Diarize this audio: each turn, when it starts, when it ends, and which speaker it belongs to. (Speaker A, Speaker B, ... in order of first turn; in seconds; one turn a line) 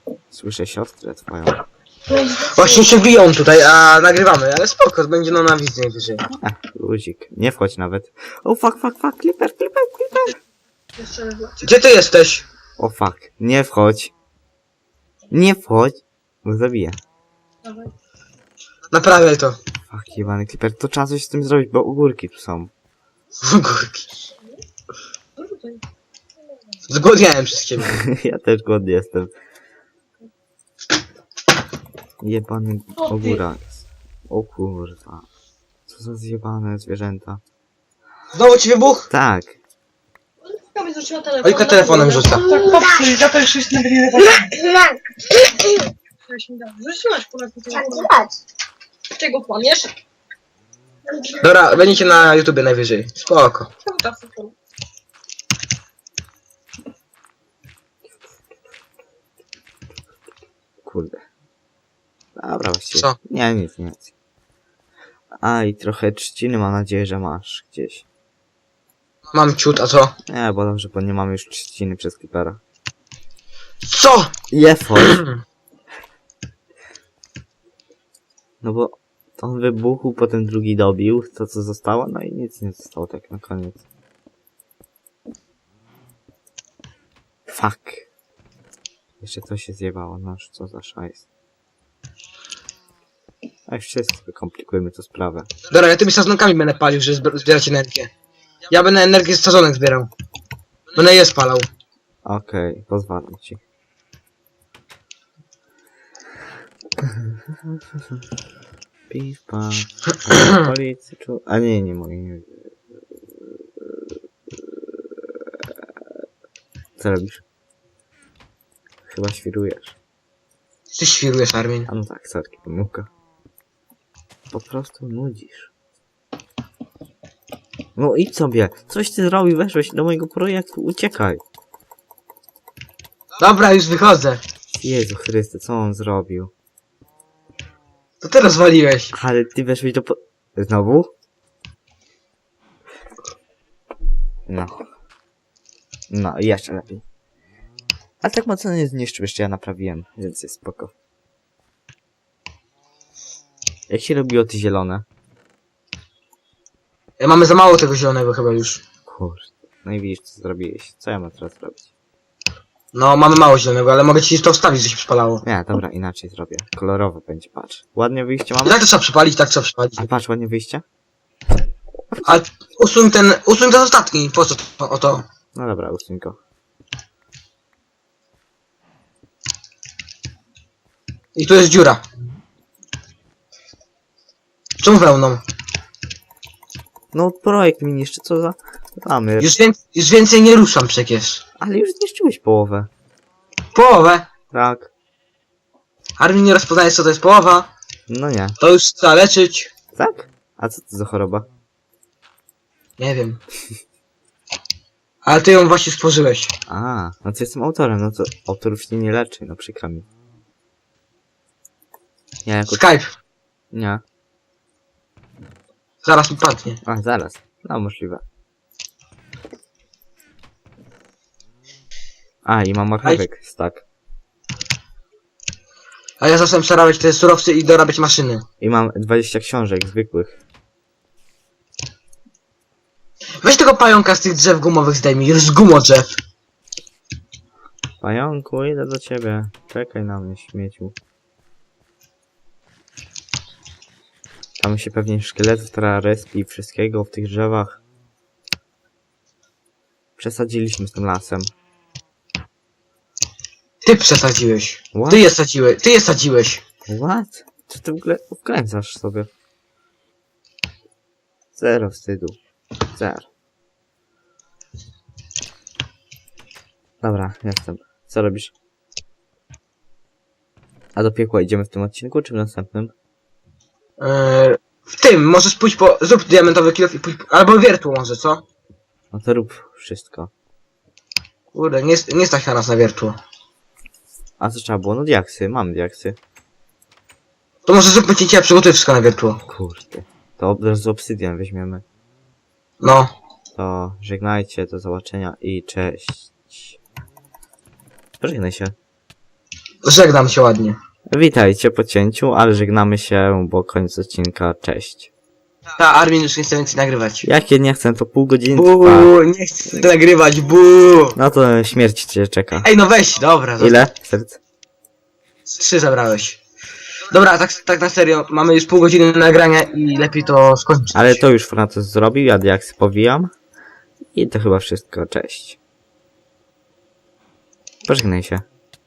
Speaker A: 0.3-1.6
Speaker B: 2.1-2.8
Speaker C: 2.3-6.2
Speaker A: 6.3-10.4
Speaker D: 11.1-11.5
Speaker C: 11.6-12.4
Speaker A: 12.8-14.1
Speaker A: 15.3-17.0
Speaker C: 18.9-19.6
Speaker A: 19.9-22.7
Speaker C: 23.4-24.1
Speaker D: 25.4-25.8
Speaker C: 26.9-28.0
Speaker A: 27.8-29.3
Speaker A: 32.2-35.3
Speaker A: 35.9-37.4
Speaker C: 38.3-39.1
Speaker A: 39.1-39.6
Speaker D: 40.6-44.4
Speaker C: 41.4-44.0
Speaker B: 42.4-43.2
Speaker B: 44.2-45.9
Speaker D: 46.3-48.1
Speaker B: 47.7-48.4
Speaker D: 49.1-49.9
Speaker C: 51.4-53.7
Speaker D: 53.8-54.5
Speaker A: 60.8-61.2
Speaker A: 62.4-64.1
Speaker A: 65.4-68.0
Speaker C: 69.3-70.1
Speaker A: 70.3-72.6
Speaker C: 73.8-74.3
Speaker A: 74.5-75.2
Speaker C: 75.0-75.3
Speaker A: 78.6-83.8
Speaker A: 87.5-88.1
Speaker A: 89.2-91.3
Speaker A: 93.7-95.5
Speaker C: 95.7-98.1
Speaker C: 98.7-100.1
Speaker C: 100.9-101.7
Speaker A: 102.2-103.6
Speaker A: 107.0-108.2
Speaker A: 109.1-115.7
Speaker C: 110.4-110.7
Speaker A: 117.0-117.4
Speaker A: 119.1-120.0
Speaker C: 121.0-121.9
Speaker A: 121.9-123.1
Speaker A: 124.5-125.7
Speaker A: 128.0-131.4
Speaker C: 133.4-134.4
Speaker A: 134.7-136.5
Speaker C: 138.2-139.1
Speaker A: 139.1-141.1
Speaker A: 144.5-144.9
Speaker A: 146.1-147.0
Speaker A: 148.2-150.9
Speaker A: 153.9-155.1
Speaker C: 157.2-158.8
Speaker A: 159.1-161.9
Speaker C: 162.9-165.4
Speaker A: 165.4-168.8
Speaker C: 168.6-170.1
Speaker A: 170.0-170.8
Speaker C: 172.2-175.2
Speaker A: 175.5-176.4
Speaker C: 181.4-182.0
Speaker C: 184.8-185.4
Speaker A: 187.1-189.6
Speaker C: 189.4-191.4
Speaker A: 191.6-192.9
Speaker C: 193.8-194.3
Speaker A: 194.5-194.9
Speaker C: 196.2-197.7
Speaker A: 198.1-198.6
Speaker C: 198.6-199.7
Speaker A: 199.9-201.5
Speaker C: 203.0-203.4
Speaker C: 205.2-206.5
Speaker A: 206.7-210.1
Speaker A: 212.4-212.8
Speaker C: 212.7-213.1
Speaker A: 213.7-214.0
Speaker C: 216.0-216.8
Speaker A: 216.8-218.2
Speaker A: 222.4-223.8
Speaker C: 226.2-228.5
Speaker A: 228.6-230.4
Speaker C: 233.4-236.2
Speaker A: 238.0-240.9
Speaker A: 244.6-247.8
Speaker A: 250.2-251.5
Speaker C: 253.8-256.6
Speaker A: 254.9-255.3
Speaker A: 256.9-259.3
Speaker A: 261.6-262.4
Speaker A: 262.9-263.3
Speaker A: 267.0-268.5
Speaker A: 270.9-272.9
Speaker C: 274.0-278.4
Speaker A: 279.1-280.3
Speaker C: 281.5-283.2
Speaker A: 284.4-286.2
Speaker C: 287.7-289.4
Speaker A: 289.5-291.9
Speaker C: 292.8-293.1
Speaker A: 293.6-296.8
Speaker A: 298.2-298.8
Speaker C: 299.8-300.8
Speaker A: 301.1-305.1
Speaker C: 305.8-307.3
Speaker A: 307.2-309.1
Speaker C: 308.5-311.2
Speaker A: 311.2-312.7
Speaker C: 312.6-313.8
Speaker A: 313.6-314.4
Speaker C: 315.6-316.4
Speaker C: 317.1-321.2
Speaker A: 320.9-323.3
Speaker A: 324.1-325.6
Speaker A: 327.9-328.4